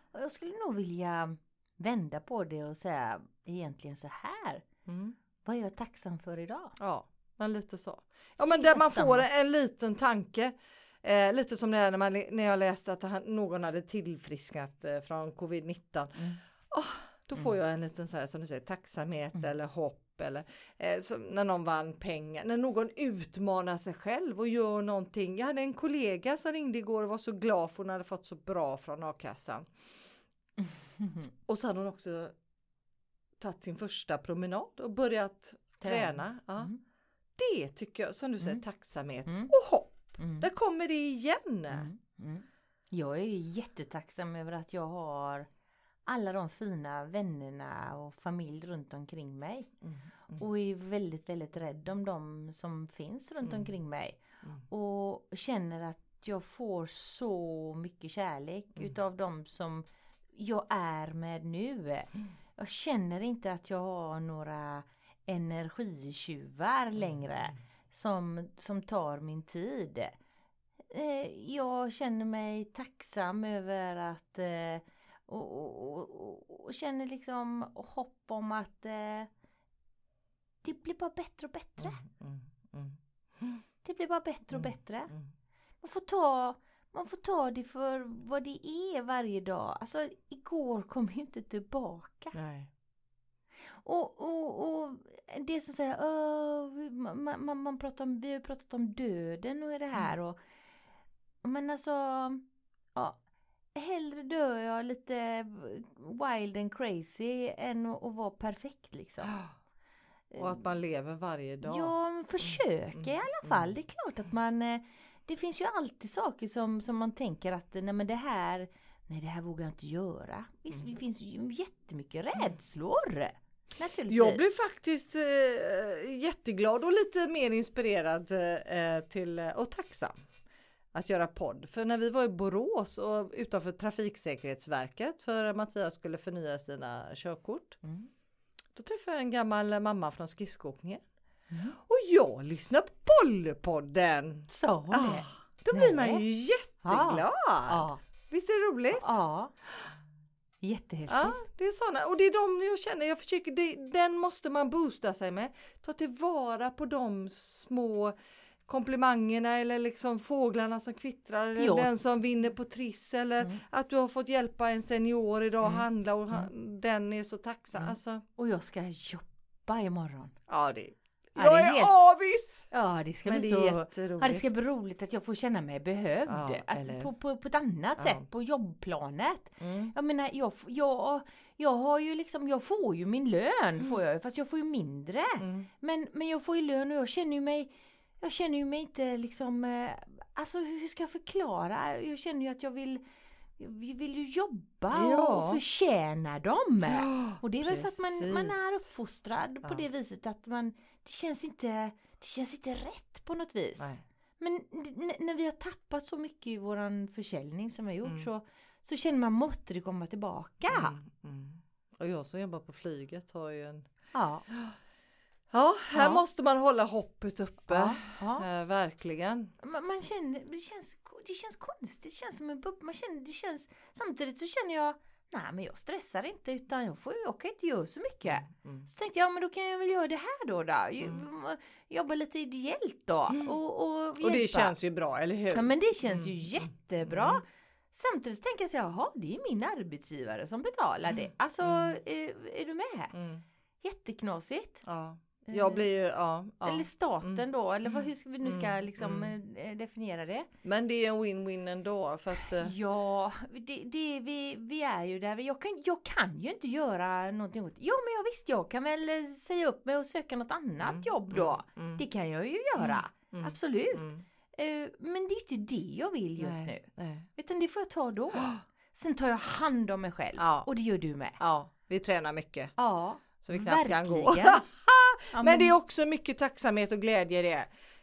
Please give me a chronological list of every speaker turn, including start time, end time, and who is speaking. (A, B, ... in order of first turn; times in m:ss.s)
0:00.1-0:04.6 A
0:04.9-0:05.2 B
0:05.4-0:06.8 A
0:06.8-0:30.1 B
0:08.5-0:09.3 A
0:30.6-0:31.3 A
0:31.5-0:32.4 B
0:33.4-0:36.7 B
0:35.8-0:36.8 A
0:37.4-0:41.9 B
0:39.3-0:39.5 A
0:40.2-0:40.5 A
0:41.7-0:45.5 A
0:46.1-0:49.7 A
0:49.8-0:50.4 B
0:50.4-1:10.1 A
0:53.4-0:53.7 B
1:10.9-1:19.3 A
1:20.6-1:22.0 A
1:21.8-1:23.6 B
1:23.8-1:25.1 A
1:24.5-1:25.2 B
1:25.8-1:32.4 A
1:32.3-1:32.7 B
1:33.7-1:40.4 A
1:41.4-1:42.4 A
1:43.0-1:43.2 A
1:43.8-1:49.4 A
1:50.3-1:50.7 A
1:50.4-1:53.8 B
1:51.6-2:04.5 A
2:04.1-2:10.2 B
2:10.9-2:17.8 B
2:17.8-2:18.1 A
2:18.7-2:21.0 B
2:21.5-2:21.8 A
2:21.8-2:29.1 B
2:24.5-2:26.2 A
2:26.8-2:28.0 A
2:28.9-2:29.5 A
2:30.6-2:31.4 A
2:31.1-2:38.2 B
2:38.7-2:48.2 B
2:41.6-2:41.9 A
2:45.6-2:46.5 A
2:47.8-2:50.4 A
2:50.5-2:52.7 B
2:51.4-2:51.9 A
2:52.7-3:13.0 A
2:53.2-2:54.5 B
2:56.3-2:57.1 B
2:58.0-2:58.2 B
2:59.6-2:59.9 B
3:05.4-3:05.7 B
3:13.6-3:23.9 A
3:14.9-3:15.6 B
3:16.9-3:18.8 B
3:24.4-3:31.0 A
3:30.7-3:33.9 B
3:34.1-3:34.4 A
3:34.5-3:34.7 B
3:35.5-3:39.5 B
3:35.9-3:36.2 A
3:37.7-3:38.5 A
3:39.6-3:54.7 A
3:48.2-3:48.9 B
3:53.3-3:53.6 B
3:54.2-3:57.4 B
3:55.5-4:03.1 A
4:01.6-4:02.0 B
4:03.1-4:03.4 B
4:03.8-4:04.8 A
4:04.8-4:09.4 B
4:05.5-4:05.9 A
4:06.6-4:10.5 A
4:10.6-4:12.7 B
4:12.4-4:31.4 A
4:20.8-4:22.0 B
4:22.8-4:24.2 B
4:26.4-4:27.3 B
4:30.4-4:30.7 B
4:31.4-4:32.8 B
4:32.8-4:34.6 A
4:33.4-4:37.7 B
4:35.3-4:35.7 A